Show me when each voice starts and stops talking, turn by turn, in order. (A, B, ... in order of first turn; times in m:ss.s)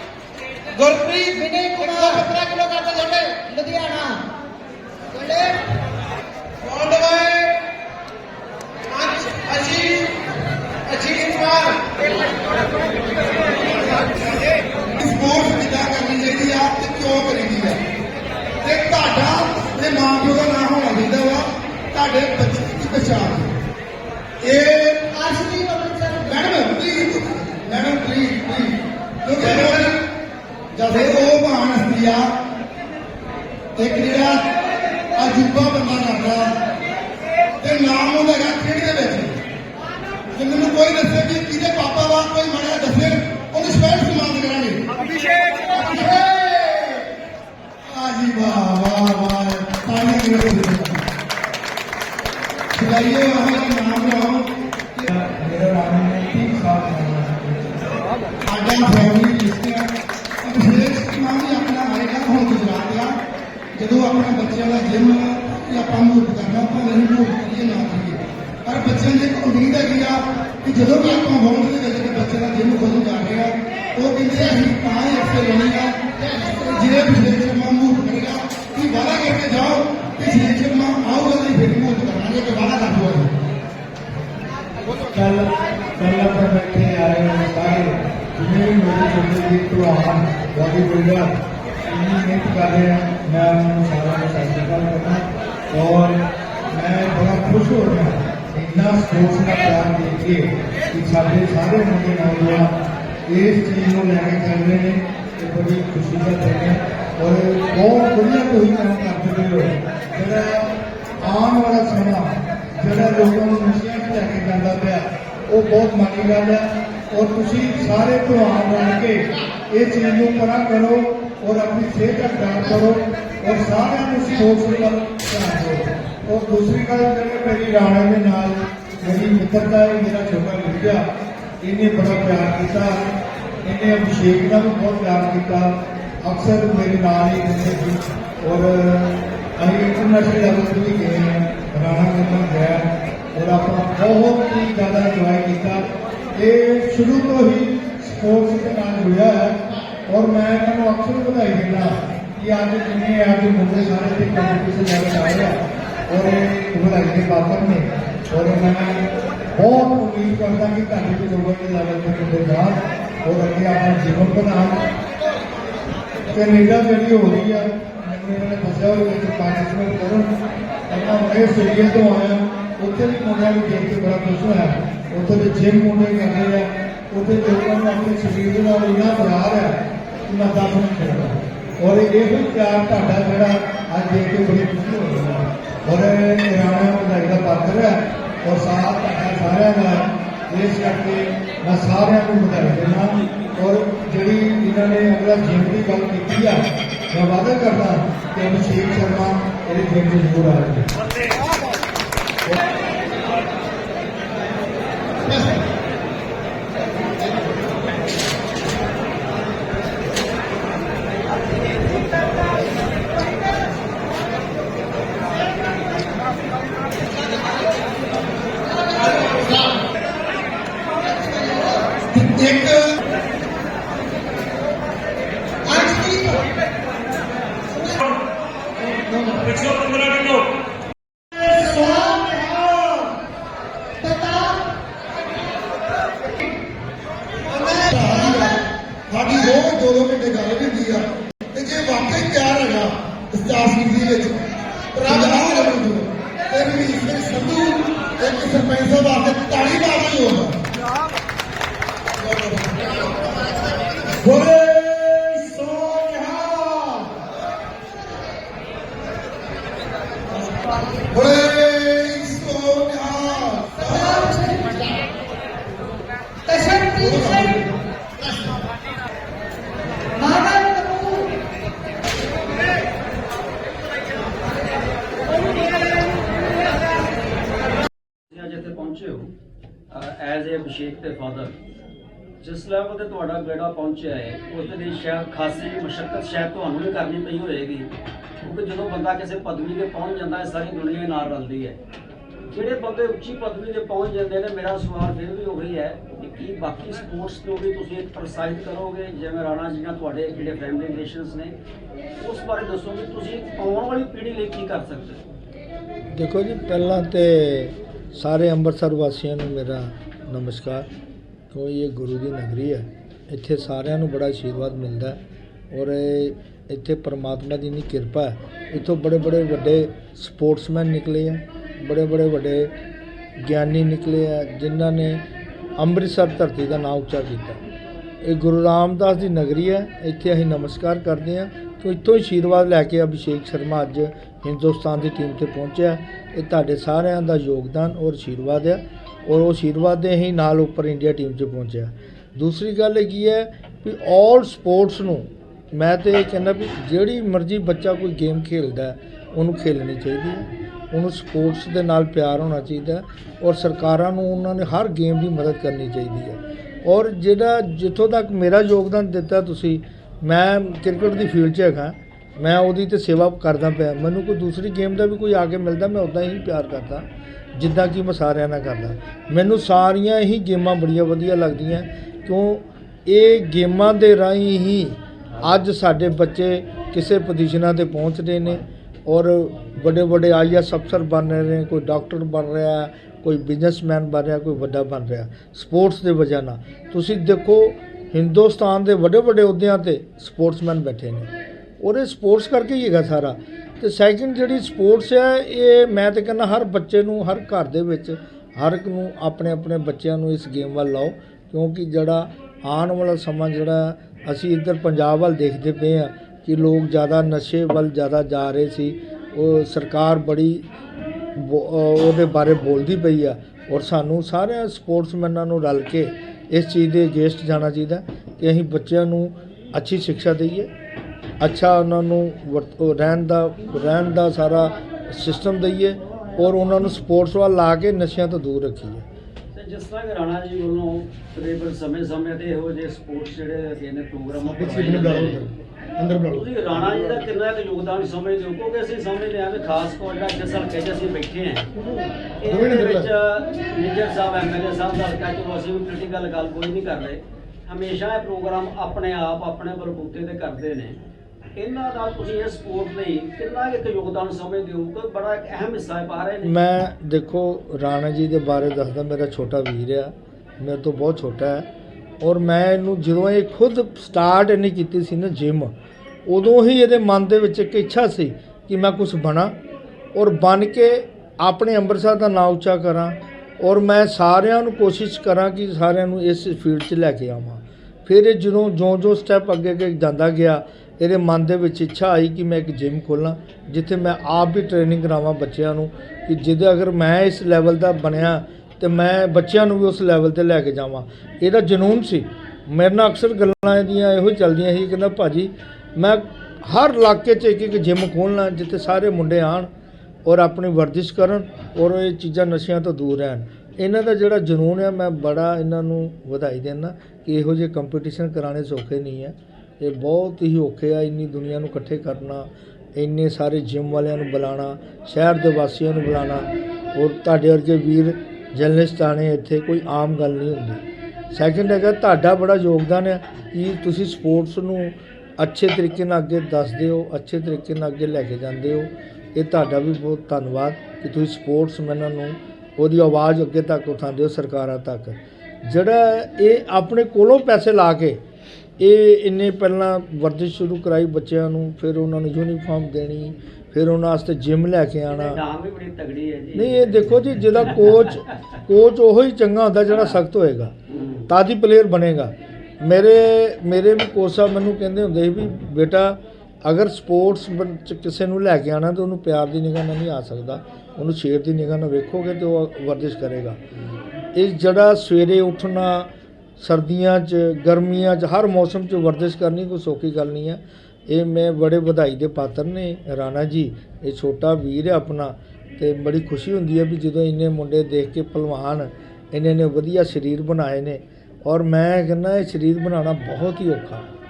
0:00.8-0:04.2 A
0:05.1-0:05.6 A
0:09.5-0:09.8 B
0:11.0-0:11.8 B
0:11.0-0:11.3 A
0:15.0-0:17.8 B
0:18.6-0:23.5 B
0:24.4-0:25.3 B
0:25.1-0:26.3 A
0:26.1-0:30.0 B
0:30.8-0:32.3 B
0:33.8-0:34.5 B
0:35.2-0:36.6 B
0:37.6-0:39.4 B
0:40.3-0:44.9 B
0:45.7-0:47.1 B
0:47.9-0:51.0 B
0:52.7-0:54.6 B
0:55.1-0:57.8 C
0:58.5-0:59.9 B
1:00.4-1:03.2 B
1:03.8-1:23.3 B
1:25.2-1:31.3 C
1:31.9-1:36.2 C
1:36.8-1:42.7 C
1:43.3-1:49.7 C
1:50.2-1:50.6 C
1:51.3-1:52.3 C
1:52.8-1:56.6 C
1:57.1-1:59.2 C
1:59.7-2:11.0 C
2:11.7-2:12.9 C
2:13.7-2:15.6 C
2:16.3-2:22.8 C
2:23.4-2:25.8 C
2:26.4-2:29.5 C
2:30.1-2:31.9 C
2:32.4-2:35.5 C
2:36.1-2:39.0 C
2:39.6-2:42.8 C
2:43.3-2:44.8 C
2:46.3-2:50.3 C
2:50.9-2:59.7 C
3:00.3-3:07.9 C
3:08.5-3:10.0 C
3:10.5-3:16.6 C
3:17.2-3:20.8 C
3:42.1-3:43.0 B
3:45.7-3:46.3 A
3:49.2-3:49.5 A
3:51.5-3:51.8 B
3:51.9-3:52.2 A
3:54.1-3:54.4 A
3:57.6-4:04.4 B
4:04.9-4:10.7 B
4:12.2-4:13.3 B
4:14.1-4:17.1 B
4:21.0-4:24.9 B
4:26.8-4:27.7 B
4:30.3-4:31.2 A
4:38.3-4:39.3 D
4:39.9-4:41.6 D
4:42.4-4:47.9 D
4:48.4-4:51.8 D
4:52.5-5:01.5 D
5:02.2-5:05.2 D
5:06.1-5:10.9 E
5:11.5-5:15.2 E
5:15.7-5:22.7 E
5:23.4-5:25.2 E
5:25.8-5:27.6 E
5:28.2-6:50.7 E
6:51.4-7:00.7 E
7:01.4-7:09.1 E
7:09.5-7:15.4 D
7:14.5-7:16.4 B
7:16.3-7:21.7 D
7:22.4-7:31.0 D
7:22.5-7:23.1 B
7:31.6-7:36.6 D
7:36.4-7:41.7 E
7:42.2-7:45.7 E
7:46.3-7:49.5 E
7:50.2-8:19.7 E
8:20.2-8:58.2 E
8:58.8-9:05.4 E
9:05.1-9:07.1 D
9:06.6-9:10.8 E
9:10.9-9:11.3 D
9:11.3-9:23.6 E
9:24.4-9:44.1 E